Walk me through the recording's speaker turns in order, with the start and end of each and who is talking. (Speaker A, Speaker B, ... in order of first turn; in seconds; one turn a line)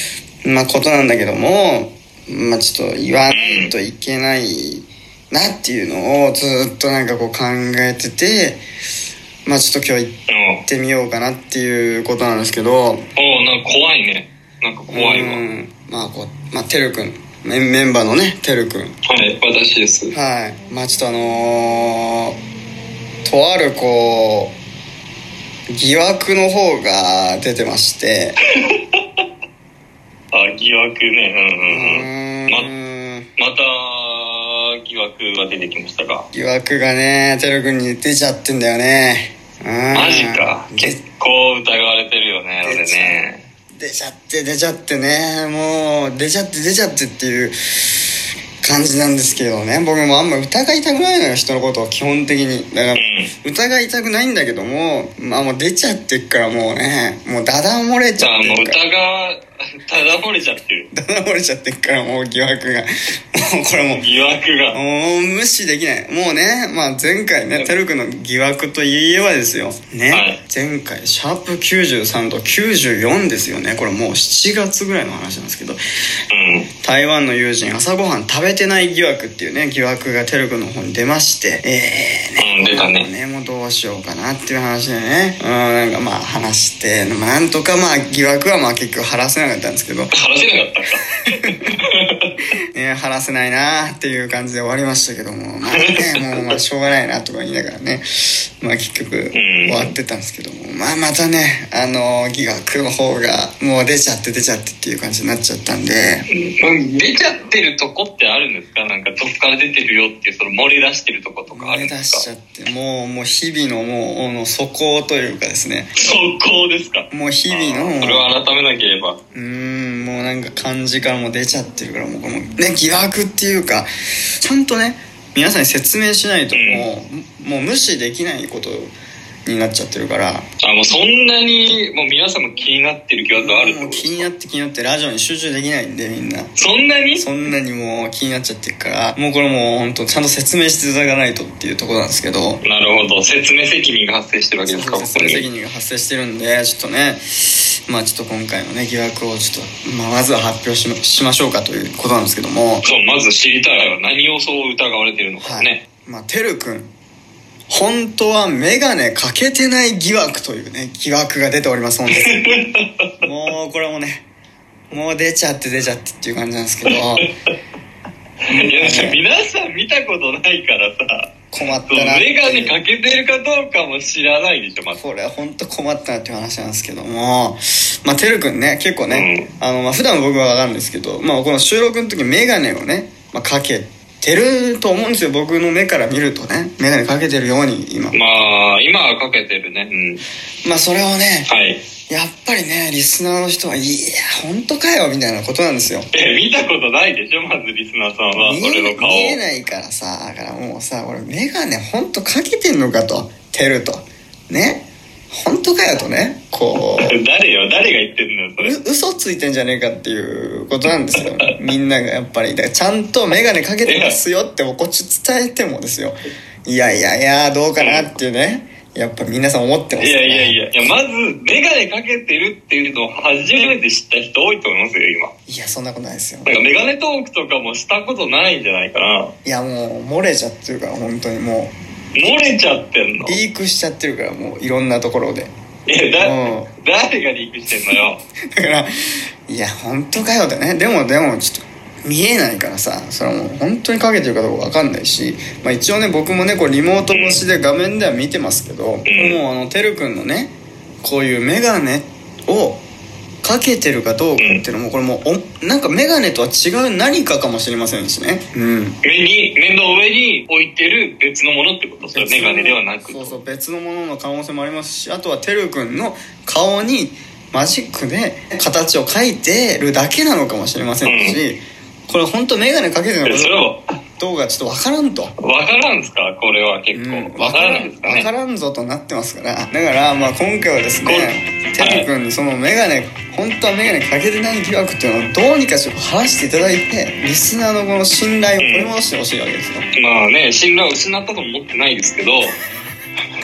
Speaker A: 0.4-8.6
Speaker B: 3.3-3.7
Speaker A: 9.4-13.1
Speaker B: 10.3-10.6
Speaker B: 13.2-15.4
Speaker A: 14.9-18.9
Speaker B: 19.1-20.1
Speaker A: 20.1-22.4
Speaker A: 23.2-24.6
Speaker A: 25.7-28.4
Speaker B: 30.3-32.7
Speaker A: 31.7-33.3
Speaker B: 33.4-36.2
Speaker A: 36.3-41.0
Speaker B: 39.9-43.5
Speaker A: 42.6-43.2
Speaker A: 43.7-47.5
Speaker A: 48.6-58.8
Speaker B: 52.9-53.3
Speaker B: 58.2-60.9
Speaker A: 60.9-64.0
Speaker B: 63.9-64.8
Speaker A: 64.7-75.8
Speaker B: 70.1-70.4
Speaker B: 76.3-76.7
Speaker A: 76.8-90.1
Speaker B: 82.4-83.1
Speaker B: 90.1-92.3
Speaker A: 92.7-106.3
Speaker B: 95.7-96.6
Speaker B: 99.3-99.9
Speaker B: 106.3-112.2
Speaker A: 111.5-115.9
Speaker B: 116.0-119.2
Speaker A: 117.1-118.3
Speaker A: 119.3-123.9
Speaker A: 124.4-128.9
Speaker B: 126.5-126.9
Speaker A: 129.4-130.5
Speaker B: 130.6-134.3
Speaker A: 133.3-136.6
Speaker B: 136.6-137.3
Speaker A: 137.2-142.6
Speaker B: 142.6-145.5
Speaker A: 144.7-152.8
Speaker B: 152.8-155.8
Speaker A: 155.4-156.9
Speaker A: 157.7-162.4
Speaker B: 162.3-162.9
Speaker A: 163.2-164.3
Speaker A: 164.9-167.3
Speaker B: 166.9-167.2
Speaker B: 168.5-175.0
Speaker A: 168.5-169.2
Speaker A: 171.5-172.8
Speaker A: 174.9-188.2
Speaker B: 179.1-179.5
Speaker B: 188.1-190.2
Speaker A: 190.6-191.5
Speaker B: 191.5-191.8
Speaker A: 192.1-196.1
Speaker B: 196.1-199.4
Speaker A: 198.4-207.2
Speaker B: 207.0-208.7
Speaker A: 208.6-220.9
Speaker B: 213.8-214.2
Speaker B: 217.8-218.1
Speaker B: 220.0-225.3
Speaker A: 225.5-226.6
Speaker B: 226.4-229.3
Speaker A: 229.4-231.7
Speaker B: 232.1-233.4
Speaker A: 233.2-235.5
Speaker B: 235.8-238.2
Speaker A: 236.2-236.7
Speaker A: 238.5-238.9
Speaker A: 239.5-252.8
Speaker B: 247.1-247.4
Speaker B: 249.1-249.4
Speaker A: 253.4-259.0
Speaker B: 254.4-254.6
Speaker B: 259.0-263.4
Speaker A: 262.0-273.5
Speaker B: 271.0-271.4
Speaker B: 273.2-273.9
Speaker A: 274.2-275.3
Speaker B: 275.4-278.3
Speaker A: 276.9-289.9
Speaker B: 281.0-282.1
Speaker B: 288.6-288.9
Speaker B: 289.9-292.6